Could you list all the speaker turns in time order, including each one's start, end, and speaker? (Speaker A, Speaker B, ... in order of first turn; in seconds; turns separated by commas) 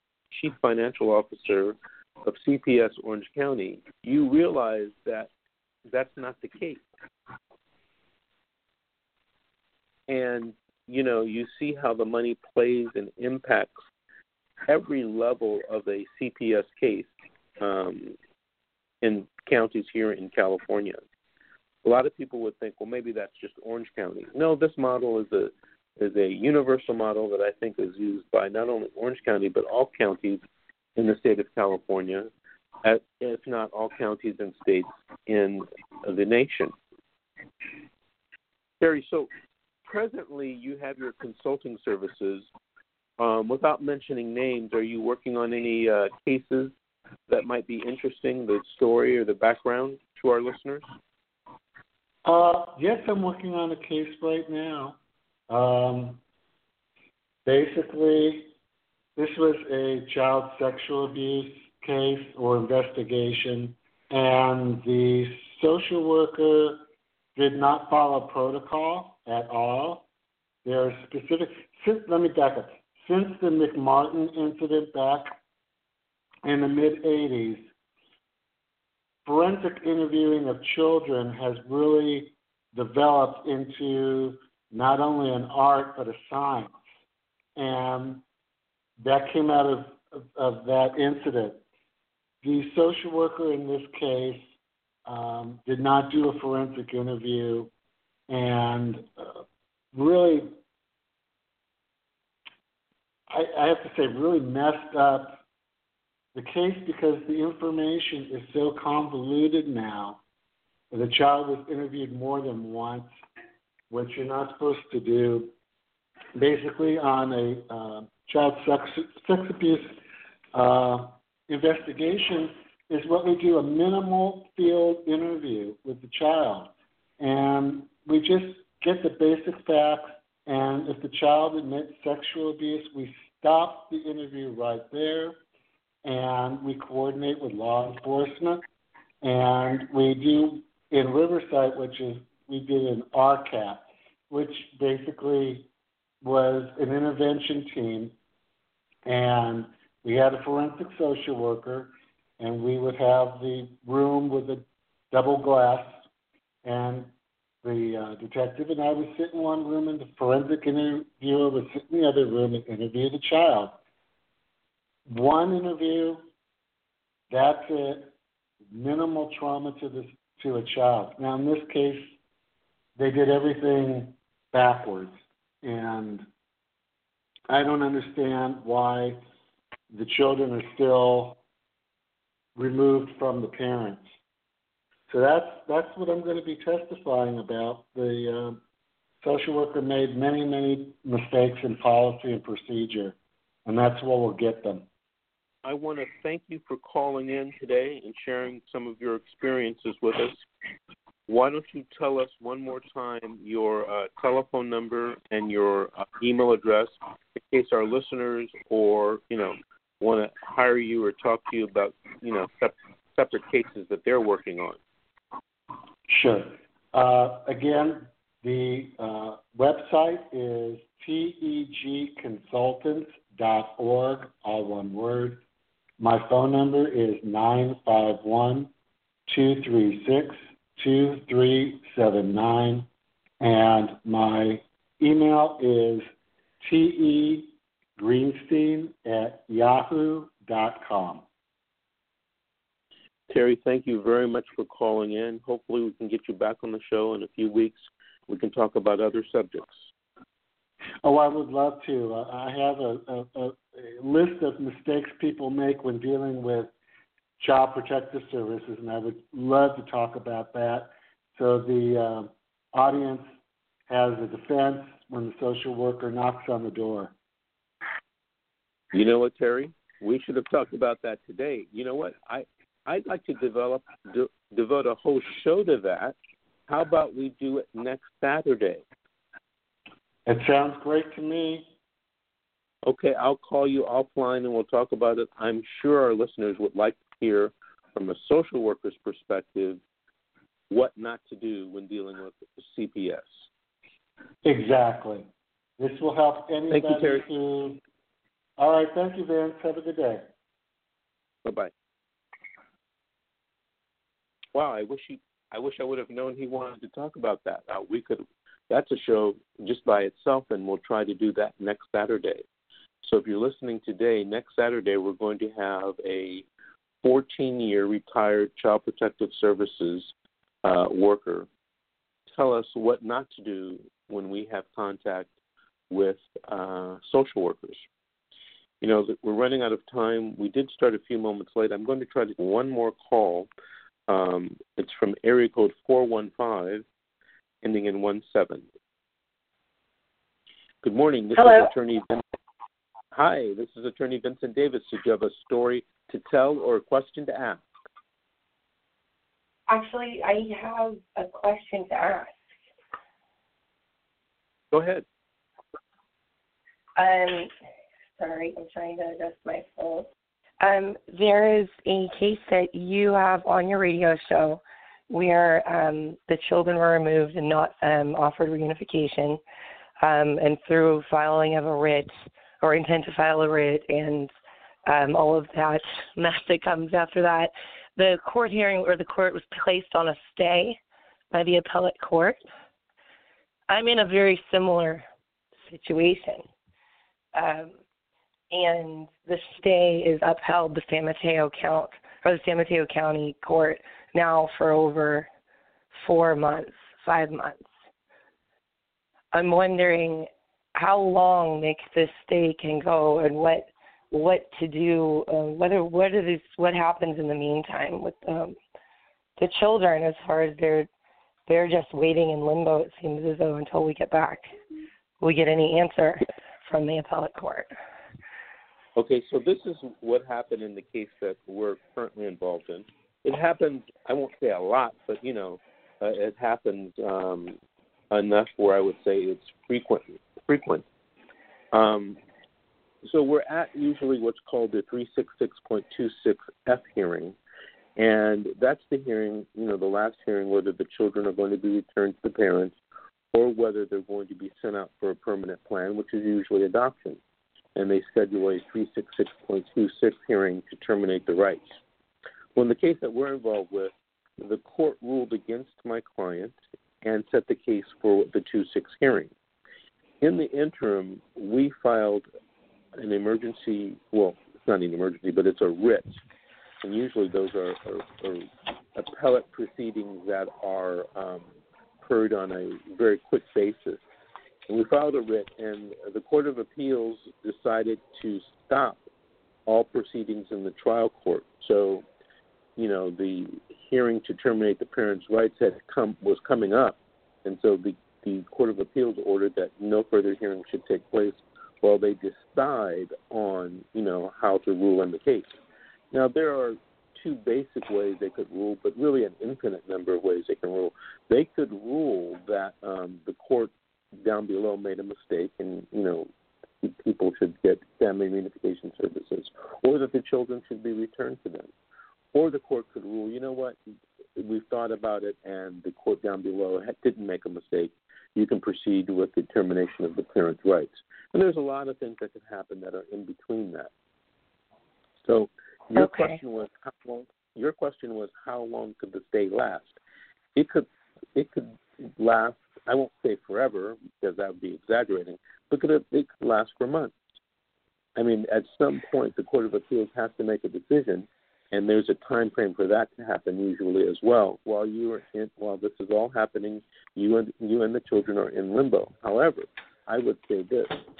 Speaker A: 0.3-5.3, Speaker A: 5.9-6.8, Speaker A: 10.1-13.8, Speaker A: 14.7-18.2, Speaker A: 19.0-21.0, Speaker A: 21.8-30.4, Speaker A: 31.0-32.3, Speaker A: 32.8-36.7, Speaker A: 38.8-39.3, Speaker A: 39.9-42.5, Speaker A: 43.2-46.7, Speaker A: 47.3-50.9, Speaker B: 52.2-55.0, Speaker B: 55.5-56.2, Speaker B: 57.5-58.5, Speaker B: 59.2-66.8, Speaker B: 67.4-70.1, Speaker B: 70.7-75.4, Speaker B: 76.4-77.7, Speaker B: 79.3-86.7, Speaker B: 87.6-88.2, Speaker B: 89.0-91.6, Speaker B: 92.4-94.5, Speaker B: 95.1-97.7, Speaker B: 98.3-99.4, Speaker B: 99.9-100.6, Speaker B: 103.3-105.4, Speaker B: 106.3-110.2, Speaker B: 110.9-113.1, Speaker B: 113.9-115.5, Speaker B: 116.3-120.0, Speaker B: 120.5-135.4, Speaker B: 136.1-138.6, Speaker B: 139.2-145.7, Speaker B: 146.2-148.1, Speaker B: 149.1-156.1, Speaker B: 156.6-157.1, Speaker B: 157.6-163.8, Speaker B: 165.1-166.2, Speaker B: 167.3-168.1, Speaker B: 168.7-172.2, Speaker B: 173.0-176.3, Speaker B: 177.5-179.2, Speaker B: 179.9-181.4, Speaker B: 182.6-184.1, Speaker B: 185.1-188.6, Speaker B: 189.2-194.9, Speaker A: 195.7-200.4, Speaker A: 201.3-214.8, Speaker B: 216.1-225.4, Speaker B: 226.0-228.7, Speaker B: 229.3-232.9, Speaker B: 233.4-236.1, Speaker B: 236.6-241.2, Speaker A: 243.3-249.8, Speaker B: 251.0-256.7, Speaker B: 257.4-263.3, Speaker B: 263.9-267.1, Speaker A: 268.9-276.2, Speaker A: 276.7-278.8, Speaker B: 280.3-281.7, Speaker A: 282.9-289.8, Speaker A: 290.7-293.4, Speaker B: 294.4-295.3, Speaker B: 295.8-297.8, Speaker A: 296.7-297.2, Speaker B: 298.6-300.2, Speaker A: 301.4-301.7, Speaker A: 304.5-312.4, Speaker A: 313.0-316.5, Speaker A: 317.0-320.1, Speaker A: 320.6-321.5, Speaker A: 322.3-325.3, Speaker A: 325.9-327.9, Speaker A: 328.8-333.5, Speaker A: 334.1-336.9, Speaker A: 337.6-338.7, Speaker A: 340.8-342.2, Speaker C: 341.4-341.7, Speaker A: 343.1-347.6, Speaker C: 349.7-352.3, Speaker A: 354.7-355.1, Speaker C: 357.0-357.5, Speaker C: 358.2-360.1, Speaker C: 360.6-369.4, Speaker C: 370.0-374.3, Speaker C: 374.9-380.8, Speaker C: 381.3-382.4, Speaker C: 383.7-385.1, Speaker C: 385.7-386.5, Speaker C: 387.3-387.7, Speaker C: 388.5-395.3, Speaker C: 396.0-397.7, Speaker C: 399.3-408.6, Speaker C: 409.4-410.9, Speaker C: 411.5-414.5, Speaker C: 415.2-417.7, Speaker A: 419.0-427.6, Speaker A: 428.1-430.9, Speaker A: 431.7-432.2, Speaker A: 433.0-437.4, Speaker A: 438.0-442.7, Speaker A: 443.3-447.2, Speaker A: 447.8-451.8, Speaker A: 452.6-459.3, Speaker A: 460.2-462.3, Speaker A: 463.0-466.2, Speaker A: 466.8-471.5, Speaker A: 472.0-474.0, Speaker A: 474.7-479.0, Speaker A: 479.7-482.1, Speaker A: 482.8-495.6, Speaker A: 496.1-506.3, Speaker A: 506.8-511.7, Speaker A: 512.3-513.8, Speaker A: 514.4-523.9, Speaker A: 525.2-530.0, Speaker C: 526.0-526.4, Speaker A: 530.5-537.1, Speaker A: 538.2-551.0